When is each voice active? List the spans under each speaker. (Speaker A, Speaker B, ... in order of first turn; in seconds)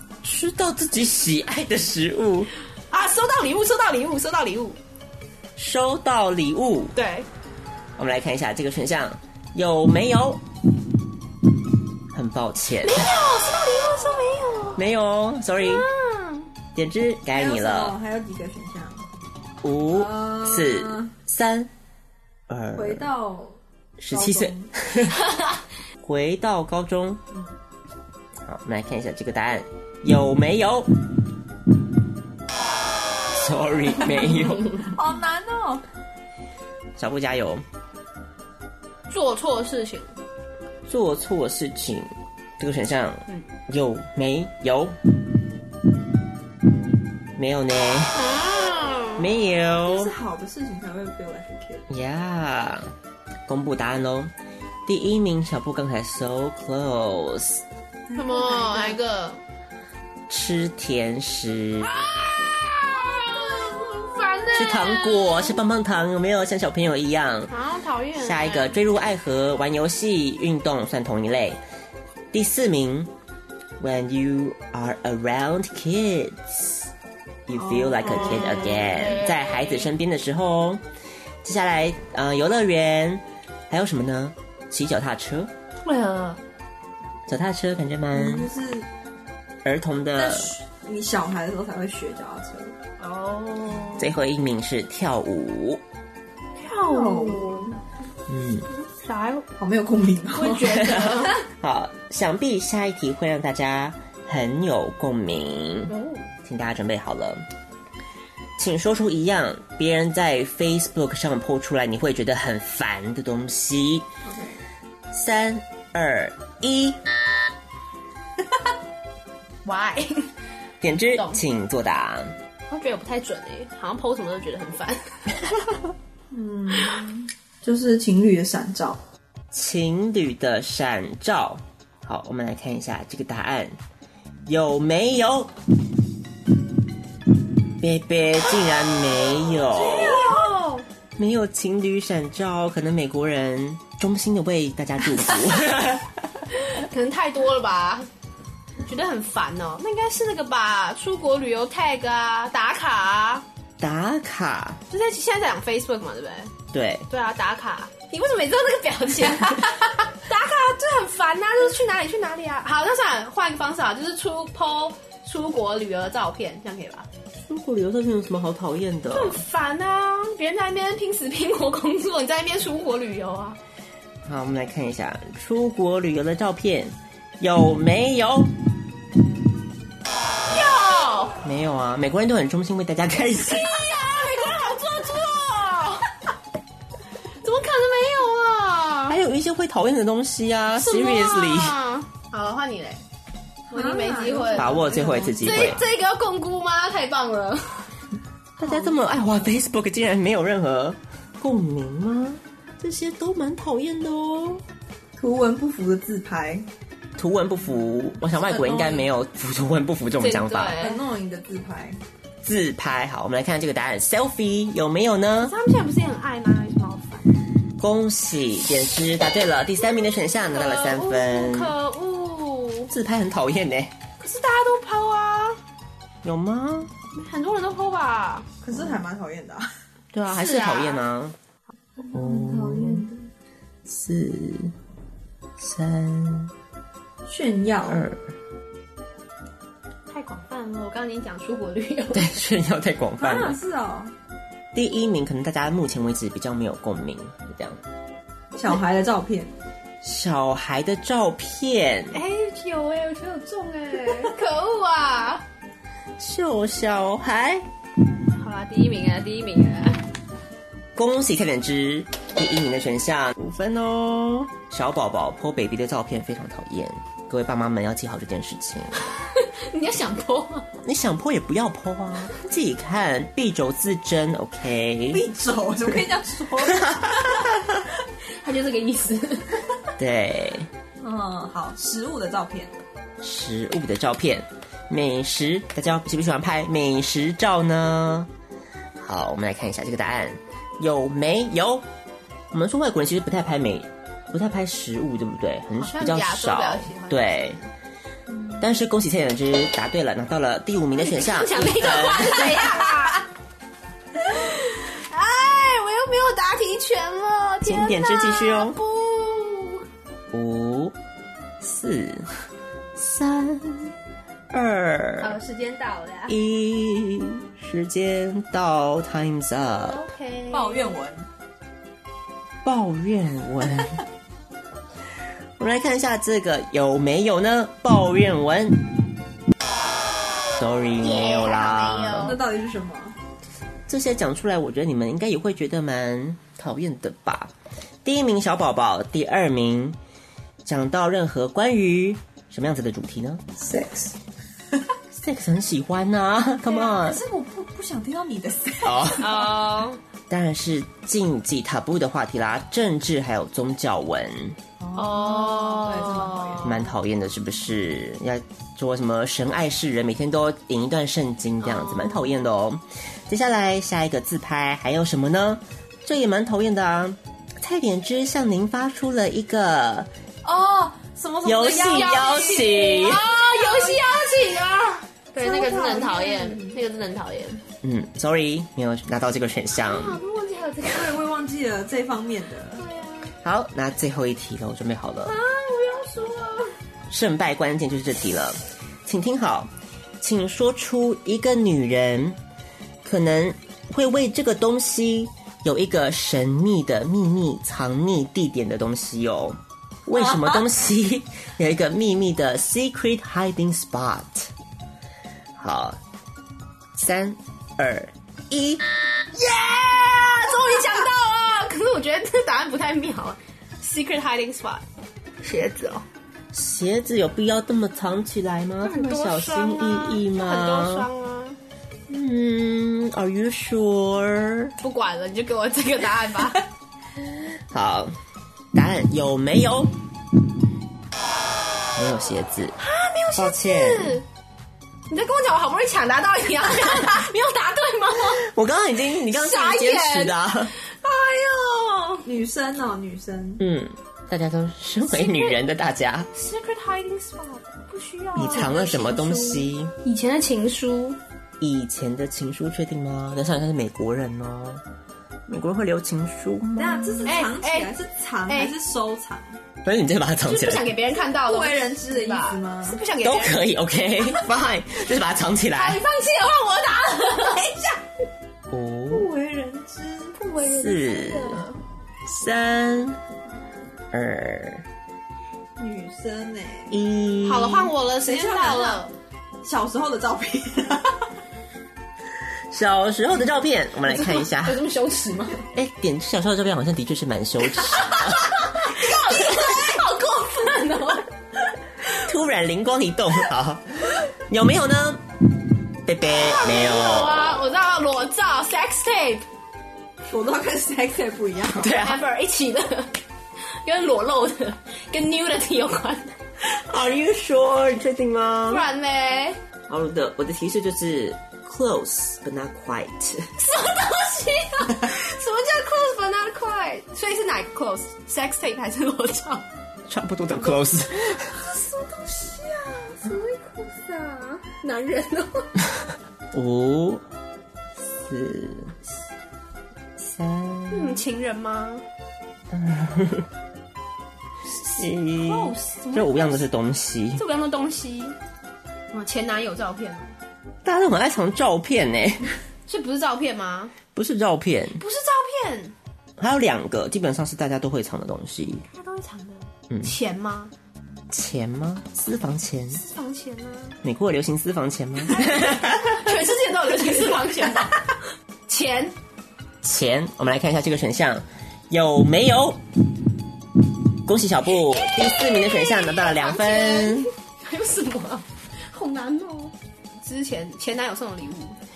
Speaker A: 0.2-2.5, 5.6-6.9, 8.0-10.4, 12.1-13.1, 14.8-15.9, 16.8-18.0, 19.6-21.7, 22.5-23.1, 24.0-25.2, 26.0-27.2, 28.4-30.9, 33.3-34.9, 37.0-37.6, 40.9-45.0, 47.4-48.2, 49.2-50.1, 51.9-52.9, 53.5-54.3, 54.9-57.6, 60.3-62.0, 64.5-67.5, 68.2-71.6, 72.3-73.1, 73.8-76.9, 77.5-80.8, 81.4-85.5, 87.3-88.5, 89.6-90.5, 94.0-95.8, 98.3-98.7, 100.8-107.4, 108.6-114.1, 115.1-117.0, 120.8-122.3, 129.5-133.8, 134.5-135.5, 137.8-140.3, 141.2-146.1, 153.8-154.8, 156.7-157.1, 167.5-169.4, 174.2-178.5, 181.4-183.8, 189.1-191.8, 194.5-195.8, 198.6-204.6, 207.2-210.8, 212.4-215.5, 217.8-221.8, 222.9-223.9, 226.2-226.9, 230.1-231.4, 232.1-233.1, 233.9-234.7, 235.6-236.5, 237.9-238.2, 242.1-243.6, 244.7-247.8, 250.0-252.2, 256.2-257.7, 260.9-269.0, 270.8-275.2, 276.7-277.8, 280.0-280.7, 283.2-288.3, 289.0-291.9, 292.5-297.6, 298.6-302.8, 307.6-308.8, 310.3-310.9, 311.6-312.3, 313.0-313.9, 314.5-315.4, 316.3-320.0, 322.6-324.0, 325.6-328.9, 330.6-332.4, 333.9-337.5, 338.0-340.0, 340.6-343.5, 345.1-347.2, 348.8-349.4, 350.3-354.6, 356.6-370.1, 371.4-373.3, 377.8-380.2, 383.4-385.4, 387.1-392.4, 393.0-404.5, 405.6-406.0, 406.9-408.8, 416.5-421.1, 422.1-424.7, 427.7-428.1, 428.7-430.0, 432.0-432.8, 433.4-434.2, 438.4-440.7, 443.6-446.3, 448.4-449.9, 451.6-454.8, 455.5-457.4, 459.8-460.9, 463.2-466.0, 468.7-469.3, 470.6-471.7, 472.2-473.2, 474.1-474.9, 476.9-477.9, 482.7-484.8, 485.7-488.5, 492.2-495.2, 496.1-497.6, 501.8-502.2, 506.6-508.8, 509.9-513.5, 520.1-521.5, 526.5-527.2, 528.2-529.0, 530.2-531.2, 532.7-533.5, 534.7-537.4, 540.9-542.5, 544.1-545.0, 546.4-548.9, 551.3-553.0, 554.0-556.3, 559.8-562.8, 564.2-567.3
Speaker B: 2.9-4.8, 7.0-7.3, 12.8-14.8, 15.6-16.5, 39.1-40.1, 48.1-49.2, 58.1-59.4, 61.9-65.6, 67.5-68.8, 78.0-79.9, 85.8-86.4, 93.0-94.1, 96.6-97.8, 98.7-99.5, 100.3-101.4, 105.9-106.3, 119.7-120.3, 121.1-121.4, 122.7-125.2, 139.7-140.8, 146.6-148.1, 148.8-153.4, 154.9-156.5, 157.1-167.1, 169.1-173.6, 180.5-181.4, 183.5-186.1, 187.4-189.2, 190.8-193.0, 193.7-194.8, 195.4-197.9, 208.4-209.1, 210.2-211.0, 215.4-217.3, 220.5-222.9, 224.2-225.6, 227.1-228.5, 230.3-231.0, 240.1-242.4, 252.1-255.4, 258.4-260.0, 269.3-270.7, 278.4-279.7, 295.8-297.4, 301.0-303.2, 304.2-309.9, 315.2-316.4, 319.8-320.9, 331.0-332.4, 349.2-350.0, 354.9-356.8, 361.6-362.2, 370.5-377.6, 379.8-381.2, 382.8-383.3, 385.2-386.8, 409.3-414.8, 415.4-416.0, 418.8-421.6, 424.8-426.6, 432.8-434.2, 435.1-438.4, 439.2-442.3, 445.1-445.6, 446.3-451.2, 457.2-457.9, 458.5-458.7, 460.5-463.6, 465.7-467.7, 470.4-471.8, 477.4-479.1, 484.1-485.7, 488.2-491.3, 496.4-499.5, 501.9-503.1, 503.7-506.4, 508.7-509.6, 513.6-519.6, 520.5-525.7, 530.9-532.0, 535.2-536.7, 537.4-538.4, 539.1-540.3, 542.9-543.9, 544.9-546.0, 548.9-550.7, 552.9-554.0, 555.5-558.1, 558.7-559.1, 565.7-571.8
Speaker C: 17.3-19.1, 19.9-21.1, 22.8-23.6, 24.1-24.7, 34.9-35.8, 49.9-51.9, 58.2-58.9, 77.7-78.8, 88.1-88.9, 90.2-92.8, 96.9-97.7, 99.6-100.8, 114.2-114.6, 126.3-129.0, 140.0-140.5, 193.7-195.8, 205.2-206.7, 210.8-212.0, 228.6-229.7, 232.0-233.3, 237.3-238.1, 243.2-244.1, 248.5-249.6, 275.1-277.5, 281.0-282.8, 320.5-321.3, 332.2-333.2, 343.6-344.1, 346.7-349.5, 354.8-356.9, 370.5-372.7, 373.5-373.9, 375.4-376.8, 380.9-382.8, 442.2-443.6, 448.4-448.7, 456.8-459.6, 461.4-463.0, 467.4-468.0, 469.1-470.4, 475.8-477.0, 478.2-479.0, 479.6-481.3, 500.3-502.0